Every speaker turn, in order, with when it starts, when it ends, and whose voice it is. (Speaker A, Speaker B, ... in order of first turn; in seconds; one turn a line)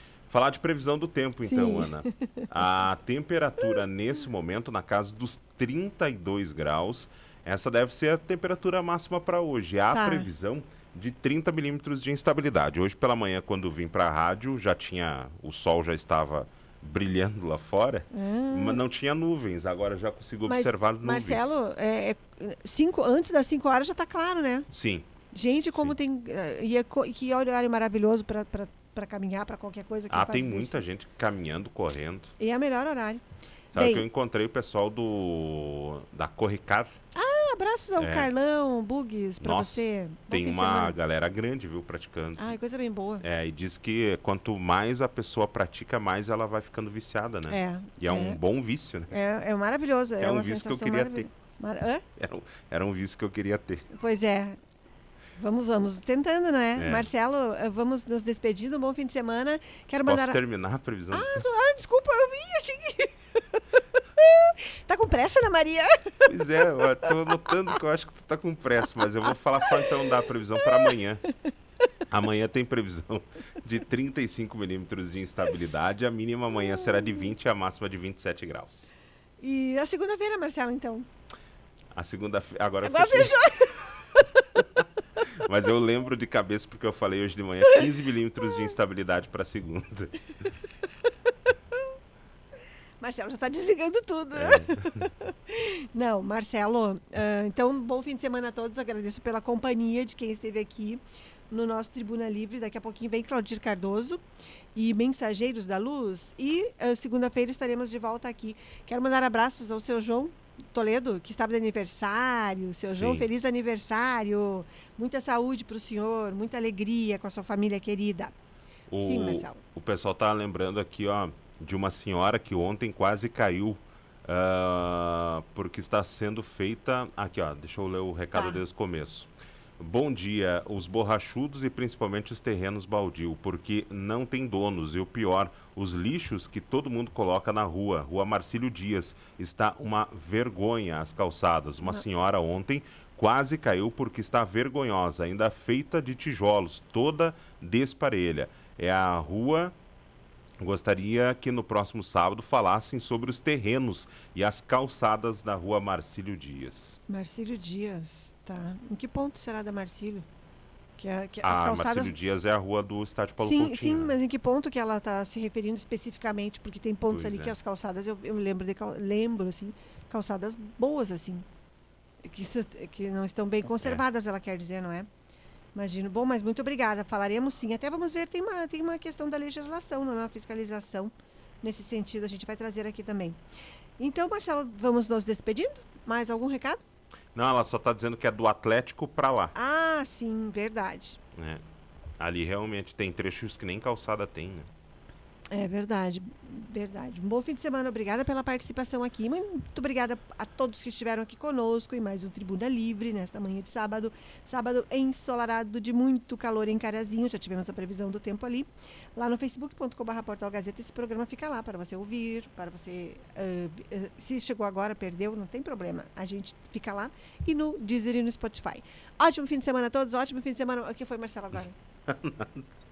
Speaker A: 0.3-21.6
Speaker B: 1.4-2.4
Speaker B: 9.9-10.3
Speaker B: 18.1-18.8
Speaker B: 20.5-24.7
Speaker A: 24.7-25.1
Speaker B: 25.3-30.9
Speaker A: 30.1-32.3
Speaker B: 32.4-34.1
Speaker A: 33.7-37.0
Speaker B: 37.1-41.0
Speaker A: 38.0-38.3
Speaker A: 39.4-42.6
Speaker B: 42.4-43.2
Speaker A: 43.2-49.1
Speaker B: 47.5-48.4
Speaker B: 49.1-52.0
Speaker A: 50.2-51.3
Speaker A: 52.2-53.9
Speaker B: 53.9-54.6
Speaker B: 55.4-60.4
Speaker A: 56.8-57.1
Speaker A: 60.1-61.4
Speaker B: 61.1-63.6
Speaker B: 64.2-66.1
Speaker A: 66.2-71.2
Speaker A: 72.1-78.9
Speaker B: 76.7-77.2
Speaker B: 79.4-81.1
Speaker A: 81.9-83.6
Speaker B: 82.8-84.4
Speaker A: 85.3-90.3
Speaker B: 93.0-104.2
Speaker A: 94.4-94.9
Speaker B: 104.8-118.3
Speaker A: 112.9-113.3
Speaker A: 118.9-149.8
Speaker B: 119.0-119.6
Speaker B: 128.3-128.6
Speaker A: 150.6-157.0
Speaker B: 157.1-160.3
Speaker B: 161.0-162.2
Speaker A: 161.4-164.1
Speaker B: 163.4-171.4
Speaker A: 167.1-167.6
Speaker B: 172.3-175.1
Speaker A: 173.7-174.0
Speaker B: 175.8-183.4
Speaker B: 184.0-186.8
Speaker A: 187.3-189.5
Speaker B: 189.6-191.2
Speaker A: 191.4-191.6
Speaker A: 192.2-194.7
Speaker B: 195.5-221.8
Speaker A: 222.1-222.7